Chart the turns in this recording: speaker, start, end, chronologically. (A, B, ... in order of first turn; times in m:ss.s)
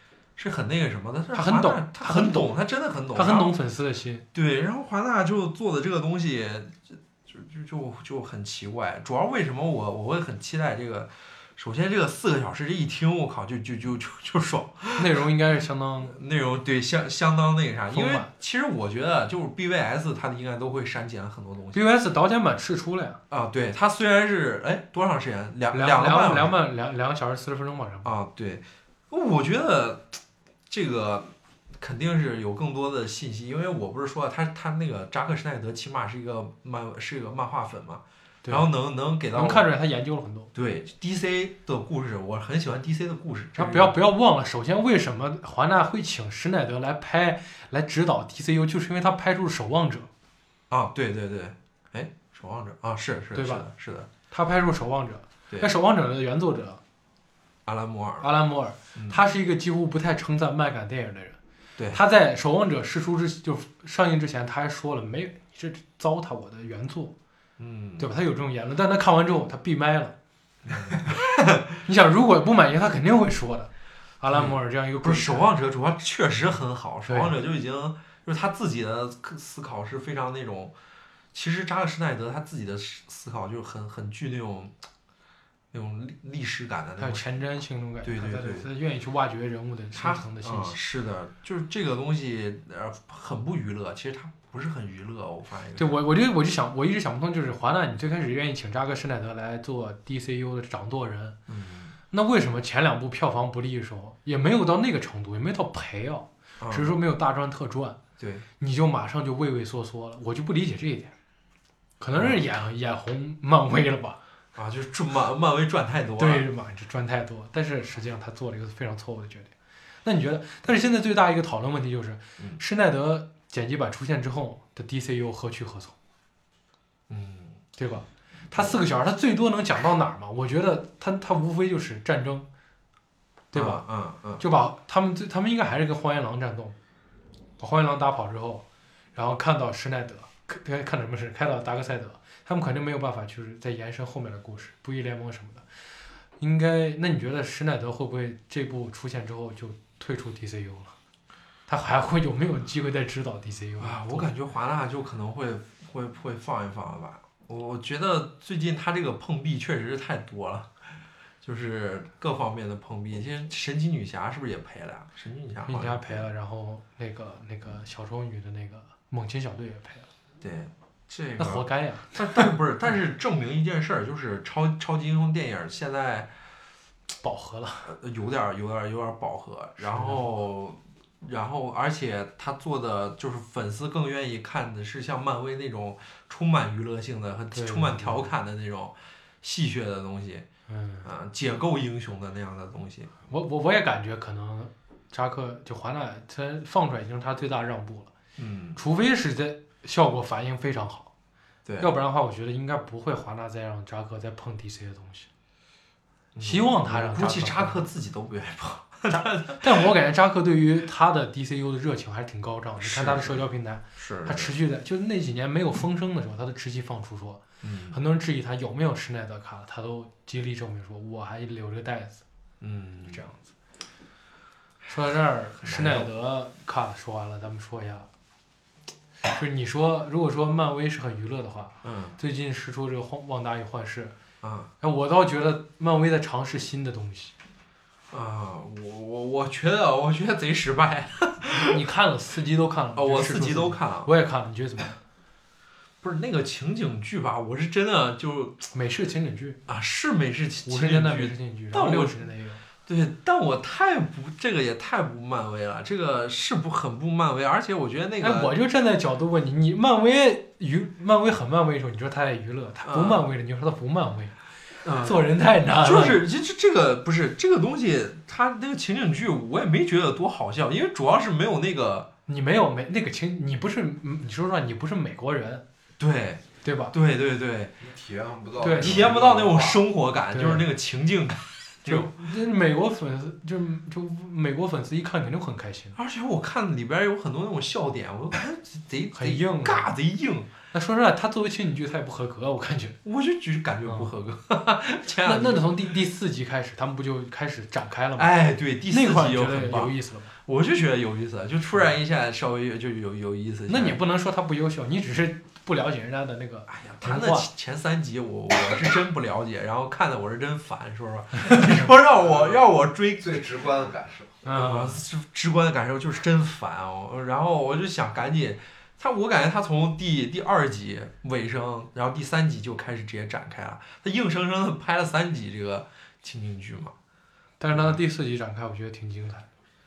0:00.4-0:03.5 A
0:01.3-0:02.5 B
0:03.1-0:04.2 B
0:04.3-0:15.2 A
0:15.0-0:16.2 B
0:16.0-0:21.8 A
0:17.9-0:18.3 B
0:21.7-0:23.2 B
0:23.3-0:26.5 A
0:25.7-0:28.1 B
0:28.0-0:39.7 A
0:38.4-0:38.7 B
0:39.3-0:40.5 B
0:40.5-0:43.9 A
0:43.6-0:50.1 B
0:50.7-0:54.1 A
0:53.3-0:53.7 B
0:54.3-0:56.8 B
0:57.6-0:58.3 A
0:58.2-1:01.4 B
0:58.9-0:59.2 A
1:01.9-1:07.1 B
1:07.6-1:08.1 A
1:08.0-1:10.1 B
1:10.6-1:11.6 A
1:11.8-1:15.5 B
1:14.3-1:20.7 A
1:17.1-1:17.3 B
1:21.3-1:24.7 A
1:25.7-1:27.2 A
1:27.0-1:30.8 B
1:28.0-1:28.7 A
1:29.9-1:35.9 A
1:35.8-1:41.4 B
1:41.5-1:41.9 A
1:42.1-1:48.0 B
1:46.6-1:46.9 A
1:48.2-1:48.4 A
1:48.6-1:51.1 B
1:52.0-1:54.2 B
1:52.2-1:52.4 A
1:54.6-1:56.5 A
1:56.2-1:59.5 B
2:00.0-2:05.9 B
2:07.1-2:07.6 A
2:07.8-2:12.5 B
2:08.5-2:08.8 A
2:13.5-2:13.8 B
2:13.5-2:14.4 A
2:14.4-2:16.8 B
2:17.6-2:25.6 B
2:26.4-2:30.9 B
2:31.7-2:34.3 B
2:33.8-2:40.7 A
2:41.4-2:46.3 A
2:45.6-2:50.1 B
2:50.4-2:56.3 A
2:51.4-2:52.5 B
2:57.2-2:57.9 B
2:57.8-3:10.4 A
2:59.8-3:00.2 B
3:07.5-3:08.3 B
3:10.7-3:11.1 B
3:11.0-3:13.1 A
3:13.3-3:18.1 B
3:18.4-3:18.8 A
3:18.8-3:21.1 B
3:21.6-3:21.9 A
3:21.8-3:25.3 B
3:26.3-3:29.8 A
3:26.4-3:27.8 B
3:29.1-3:42.2 B
3:32.8-3:33.4 A
3:34.0-3:34.5 A
3:37.6-3:38.0 A
3:42.6-3:43.2 A
3:43.1-3:43.4 B
3:44.9-3:48.1 B
3:45.6-3:46.1 A
3:49.3-3:54.1 B
3:51.8-3:52.2 A
3:54.4-3:54.7 A
3:54.8-3:57.3 B
3:58.1-4:01.8 A
4:01.6-4:05.0 B
4:03.0-4:04.1 A
4:06.0-4:08.7 A
4:08.7-4:09.6 B
4:09.7-4:12.2 A
4:10.7-4:12.6 B
4:12.8-4:18.5 A
4:18.2-4:24.4 B
4:22.8-4:23.2 A
4:24.8-4:25.2 A
4:24.9-4:26.2 B
4:25.8-4:32.1 A
4:32.3-4:35.6 B
4:36.0-4:37.7 A
4:36.6-4:36.9 B
4:37.8-4:39.8 C
4:38.6-4:39.2 B
4:38.7-4:42.2 A
4:40.3-4:40.6 B
4:41.8-4:46.0 B
4:45.9-4:50.5 A
4:49.1-4:49.9 B
4:50.7-4:53.0 B
4:53.0-4:55.7 A
4:53.8-4:54.1 B
4:55.2-4:58.4 B
4:58.2-4:59.9 A
4:58.9-5:00.3 B
5:00.4-5:04.0 A
5:03.7-5:07.4 B
5:06.7-5:13.4 A
5:12.1-5:12.6 C
5:13.2-5:14.4 C
5:14.4-5:15.0 B
5:14.4-5:26.9 A
5:27.6-5:29.5 B
5:27.7-5:28.0 A